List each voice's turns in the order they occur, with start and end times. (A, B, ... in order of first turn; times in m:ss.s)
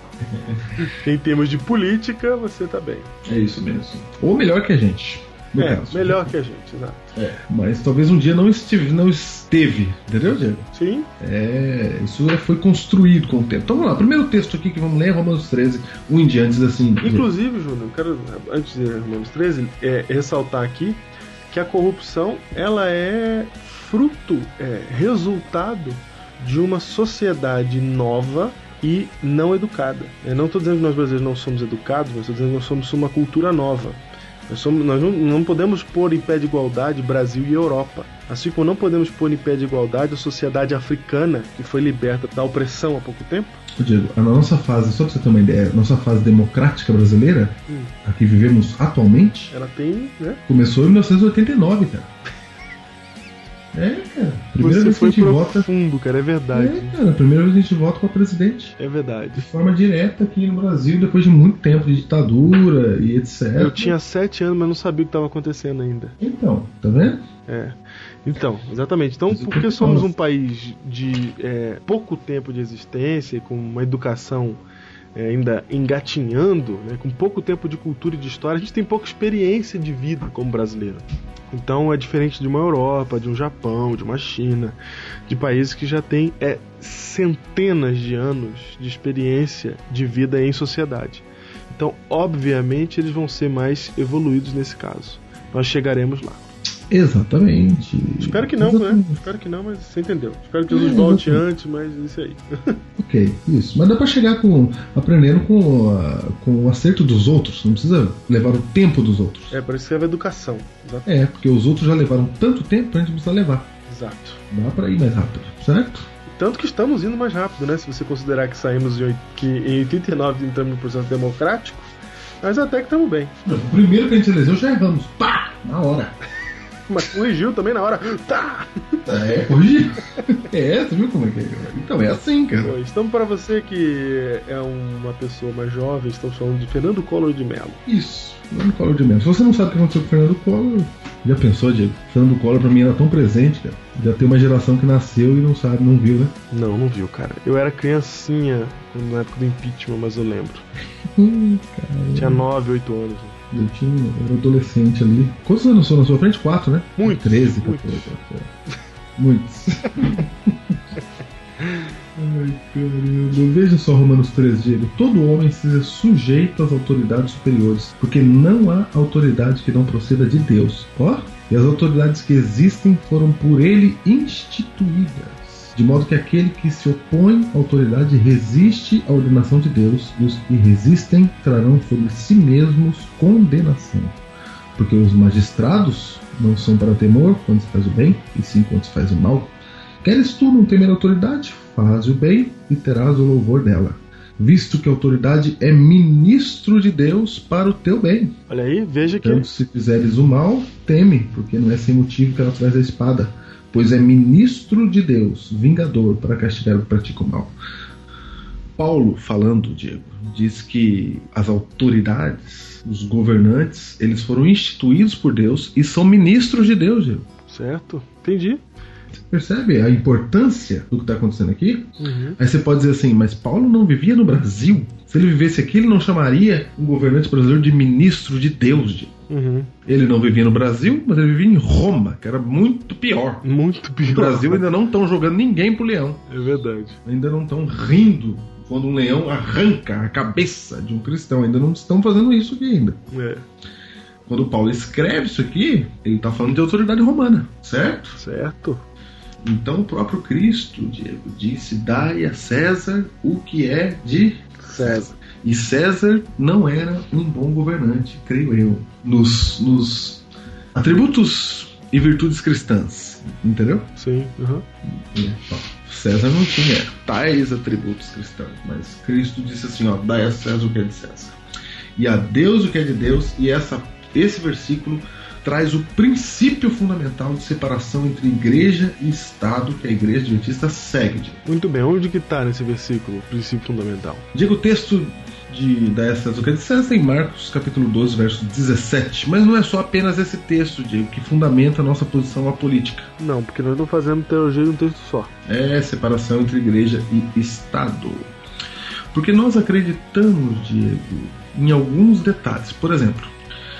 0:00.2-0:00.8 A
0:00.8-0:03.1 B
0:03.2-0:06.3 A
0:05.6-0:07.2 B
0:07.2-0:10.7 A
0:10.7-0:11.1 B
0:11.2-0:17.3 A
0:17.0-0:43.6 B
0:43.8-0:49.5 A
0:47.7-0:47.9 B
0:49.5-0:50.4 B
0:50.5-0:52.1 A
0:53.7-0:55.7 A
0:54.6-0:57.0 B
0:56.5-0:58.8 A
0:58.8-0:59.5 B
0:59.4-1:03.9 A
1:03.6-1:06.2 B
1:06.2-1:07.3 A
1:07.5-1:14.6 B
1:09.3-1:10.1 A
1:15.2-1:24.8 B
1:25.3-1:36.4 B
1:36.9-1:39.3 A
1:38.2-1:42.8 B
1:40.7-1:41.4 A
1:43.0-1:49.6 A
1:49.5-1:51.1 B
1:51.1-1:53.7 A
1:53.9-1:54.4 B
1:54.5-1:56.1 A
1:56.3-2:03.3 B
2:03.4-2:06.2 A
2:06.9-2:09.0 B
2:09.0-2:12.8 A
2:12.6-2:17.8 B
2:17.9-2:26.4 A
2:26.5-2:30.7 B
2:31.0-2:32.5 A
2:32.2-2:33.4 B
2:33.5-2:38.5 A
2:37.0-2:38.1 B
2:39.2-2:40.8 A
2:42.2-3:04.2 A
3:04.8-3:18.4 A
3:18.5-3:19.5 B
3:19.0-3:27.5 A
3:28.8-3:37.3 A
3:37.5-3:38.6 B
3:39.1-3:49.2 A
3:42.0-3:42.4 B
3:49.3-3:49.7 B
3:49.9-3:53.4 A
3:53.4-3:54.6 B
3:54.0-3:56.2 A
3:56.3-3:57.0 B
3:57.0-4:03.0 A
4:03.1-4:03.4 B
4:04.2-4:08.2 A
4:08.2-4:08.8 B
4:09.4-4:23.9 A
4:14.6-4:15.1 B
4:24.0-4:24.7 B
4:25.0-4:31.4 A
4:32.0-4:41.4 A
4:41.4-4:44.3 B
4:44.3-4:53.1 A
4:53.2-4:55.3 B
4:55.5-4:58.3 A
4:59.1-5:03.3 A